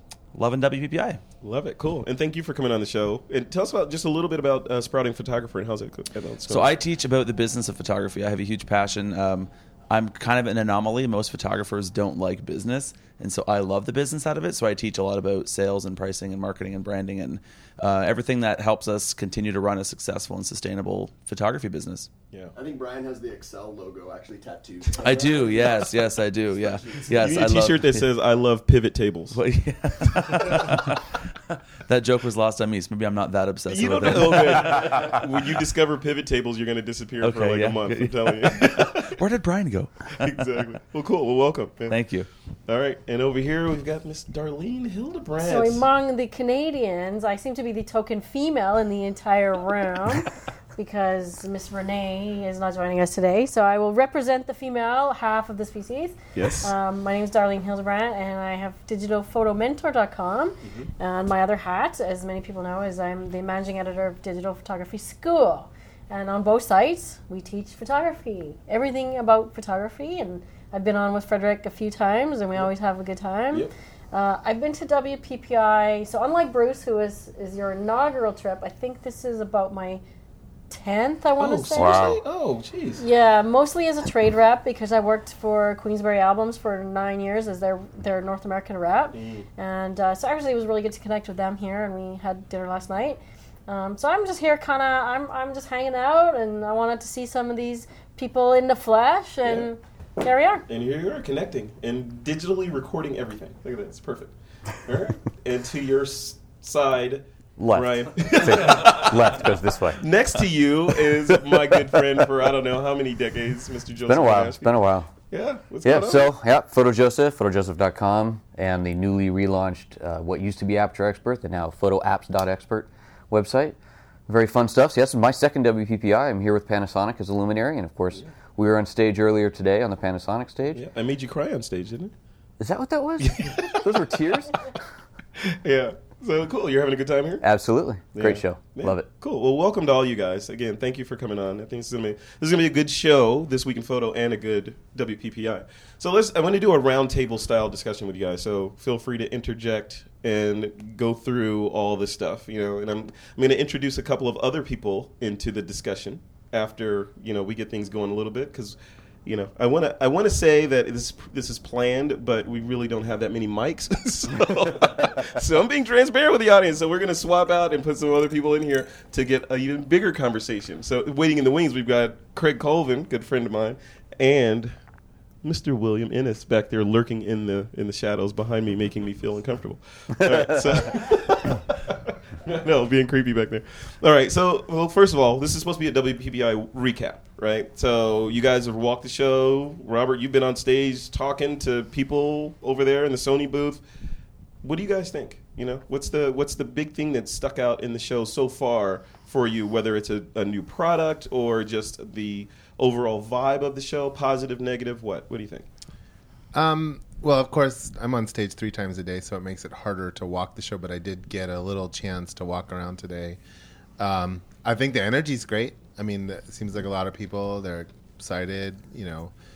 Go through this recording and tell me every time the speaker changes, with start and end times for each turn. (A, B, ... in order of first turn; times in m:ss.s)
0:00.3-0:01.2 A
0:01.4-0:06.8 B
0:06.5-0:22.1 A
0:22.5-0:27.3 C
0:25.0-0:28.0 A
0:26.9-0:29.4 B
0:29.3-0:31.0 A
0:31.9-0:35.2 A
0:33.7-0:39.2 B
0:37.2-0:40.4 A
0:40.2-0:42.0 B
0:41.9-0:42.3 A
0:42.6-0:45.8 B
0:45.4-1:20.0 D
0:56.3-0:56.7 B
1:20.7-1:22.1 D
1:21.4-1:23.0 B
1:21.8-1:22.2 E
1:23.0-1:40.6 D
1:29.1-1:29.4 B
1:40.7-1:44.3 B
1:44.8-1:54.7 B
1:47.6-1:50.0 E
1:54.1-1:55.2 E
1:55.3-1:56.3 B
1:55.8-2:03.8 E
2:04.3-2:10.8 E
2:10.7-2:12.1 B
2:12.6-2:14.7 E
2:13.2-2:13.8 B
2:15.5-2:17.4 B
2:17.4-2:19.1 E
2:18.1-2:54.7 B
2:55.4-3:01.9 B
3:02.4-3:13.8 B
3:14.6-3:25.7 B
3:26.5-3:33.4 F
3:34.0-3:39.3 F